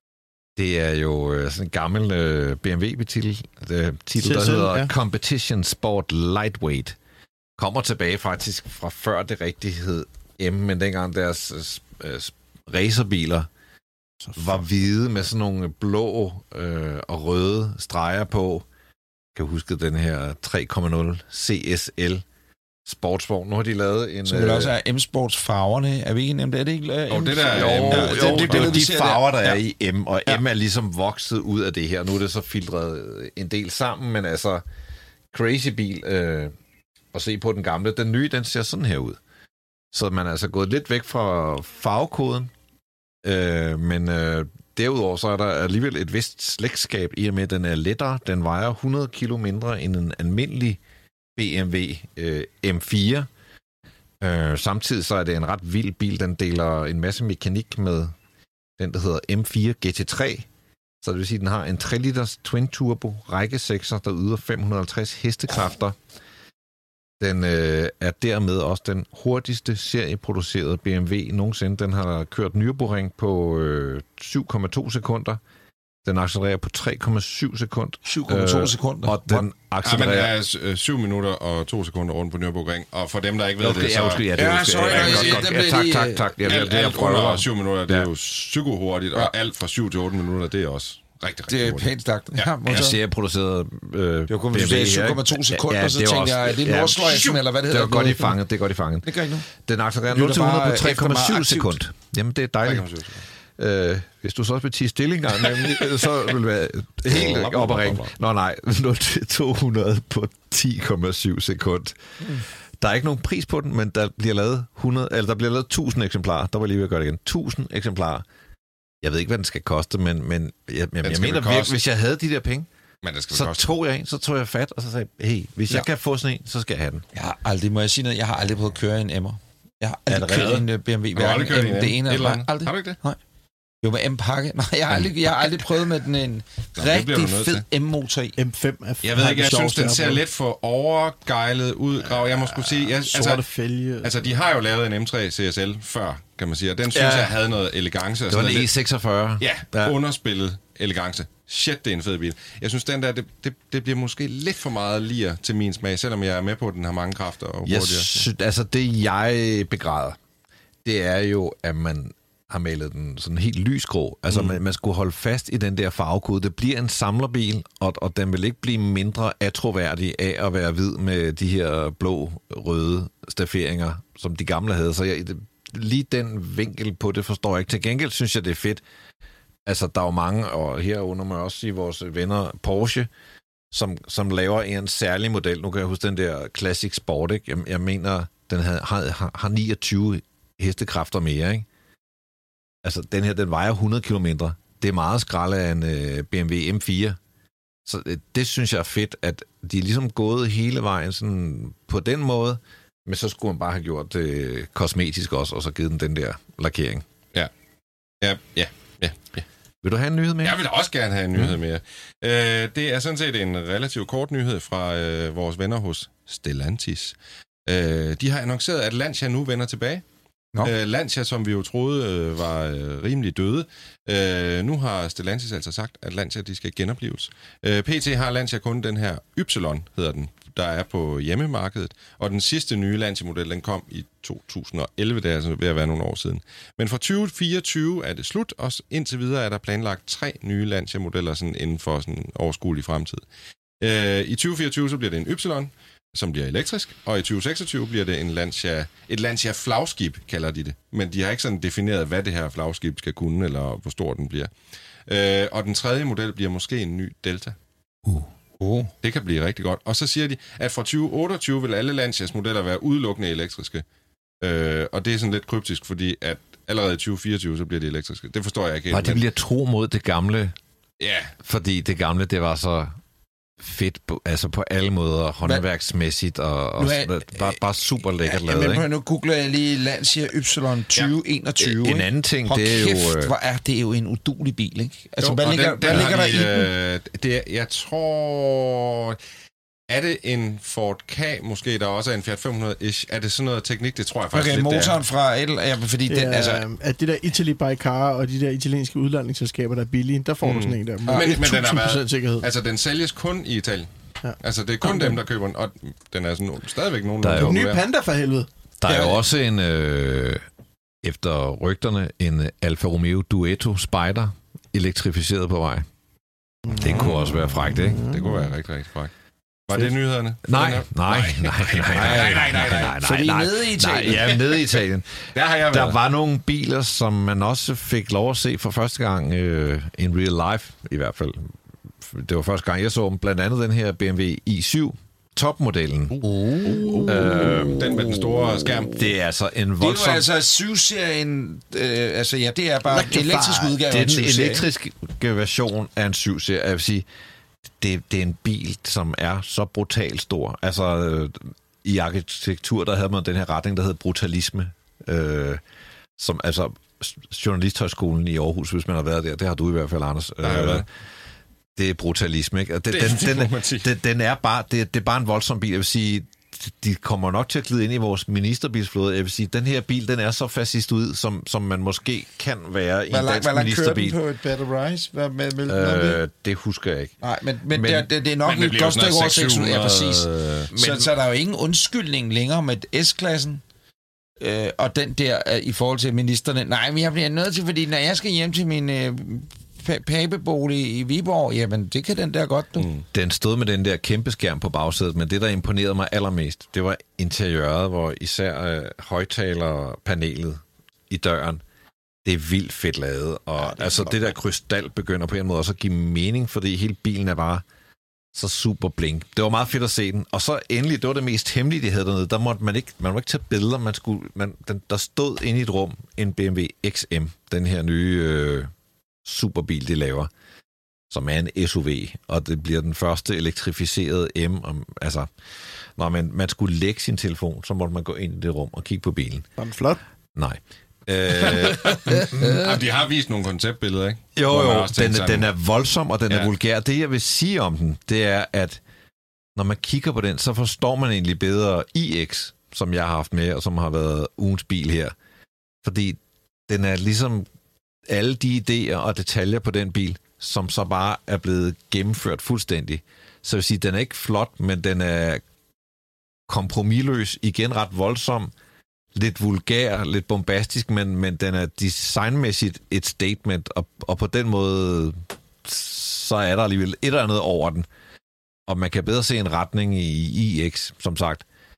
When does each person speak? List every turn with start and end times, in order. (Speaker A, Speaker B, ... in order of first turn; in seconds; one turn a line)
Speaker A: 0.6-7.0
Speaker B: 4.2-4.9
Speaker A: 7.6-13.5
Speaker A: 14.3-18.6
Speaker A: 19.3-22.2
Speaker A: 22.8-24.7
Speaker C: 24.2-29.6
Speaker D: 27.1-28.9
Speaker A: 27.5-34.6
Speaker A: 35.3-36.5
Speaker A: 37.1-39.2
Speaker A: 39.9-42.5
Speaker A: 43.2-50.8
Speaker A: 51.4-53.3
Speaker A: 54.2-58.1
Speaker A: 58.8-60.5
Speaker A: 61.0-66.0
Speaker A: 67.2-75.4
Speaker A: 76.0-80.3
Speaker C: 78.0-79.4
Speaker D: 79.8-85.5
Speaker A: 83.6-88.1
Speaker C: 84.3-86.3
Speaker D: 86.4-92.5
Speaker C: 91.5-93.0
Speaker A: 92.7-102.9
Speaker C: 94.3-98.4
Speaker C: 99.0-99.5
Speaker C: 100.1-101.8
Speaker D: 102.6-103.2
Speaker A: 103.6-118.2
Speaker D: 107.1-108.1
Speaker A: 119.0-122.7
Speaker D: 121.0-121.8
Speaker D: 123.0-123.7
Speaker A: 123.3-127.0
Speaker C: 127.1-133.2
Speaker A: 130.1-130.6
Speaker D: 131.1-133.0
Speaker C: 133.8-138.3
Speaker D: 136.8-137.6
Speaker B: 138.4-140.2
Speaker D: 139.0-143.4
Speaker B: 142.1-144.1
Speaker D: 144.0-148.7
Speaker A: 146.9-147.3
Speaker A: 148.3-150.0
Speaker D: 149.4-158.2
Speaker A: 157.7-160.2
Speaker A: 160.8-178.8
Speaker A: 179.7-183.1
Speaker A: 183.7-191.7
Speaker A: 192.8-197.2
Speaker A: 197.8-207.0
Speaker D: 208.2-209.4
Speaker A: 209.8-210.6
Speaker D: 210.4-217.2
Speaker D: 217.7-220.0
Speaker D: 220.6-243.2
Speaker D: 243.8-254.5
Speaker D: 255.1-257.6
Speaker C: 258.1-258.9
Speaker D: 259.0-263.8
Speaker D: 264.4-269.2
Speaker A: 268.9-270.6
Speaker D: 271.0-271.3
Speaker A: 271.4-273.0
Speaker A: 273.6-278.9
Speaker C: 276.8-277.6
Speaker C: 278.2-286.7
Speaker A: 281.6-283.3
Speaker D: 285.2-289.2
Speaker D: 289.9-295.0
Speaker C: 294.3-296.6
Speaker B: 296.1-302.5
Speaker D: 300.4-307.8
Speaker B: 304.2-305.2
Speaker A: 307.2-307.6
Speaker B: 307.4-308.5
Speaker A: 308.8-310.4
Speaker C: 308.9-309.2
Speaker A: 311.0-315.9
Speaker B: 316.6-318.5
Speaker A: 316.8-318.0
Speaker D: 316.9-317.3
Speaker D: 317.9-319.1
Speaker D: 319.7-322.9
Speaker A: 320.4-336.2
Speaker C: 321.9-324.4
Speaker D: 325.3-326.0
Speaker C: 336.2-337.5
Speaker D: 336.9-338.9
Speaker A: 337.1-338.0
Speaker A: 338.9-340.3
Speaker C: 339.8-344.6
Speaker B: 342.9-343.7
Speaker A: 343.8-347.1
Speaker A: 347.8-355.6
Speaker A: 356.2-360.8
Speaker D: 360.4-360.8
Speaker A: 361.8-374.2
Speaker D: 362.9-363.9
Speaker C: 373.1-376.2
Speaker A: 375.7-377.1
Speaker C: 377.2-383.6
Speaker A: 377.7-378.1
Speaker D: 378.4-380.7
Speaker A: 380.7-381.1
Speaker C: 384.4-392.9
Speaker D: 392.8-393.0
Speaker A: 393.1-401.6
Speaker A: 402.2-407.6
Speaker A: 408.3-418.7
Speaker A: 419.2-420.3
Speaker A: 421.1-425.3
Speaker A: 425.9-429.5
Speaker B: 429.6-430.0
Speaker A: 430.4-432.8
Speaker D: 431.4-435.5
Speaker A: 434.4-438.8
Speaker A: 439.6-445.1
Speaker A: 445.8-447.4
Speaker A: 448.1-455.4
Speaker A: 456.5-458.5
Speaker A: 459.1-467.9
Speaker A: 468.7-471.4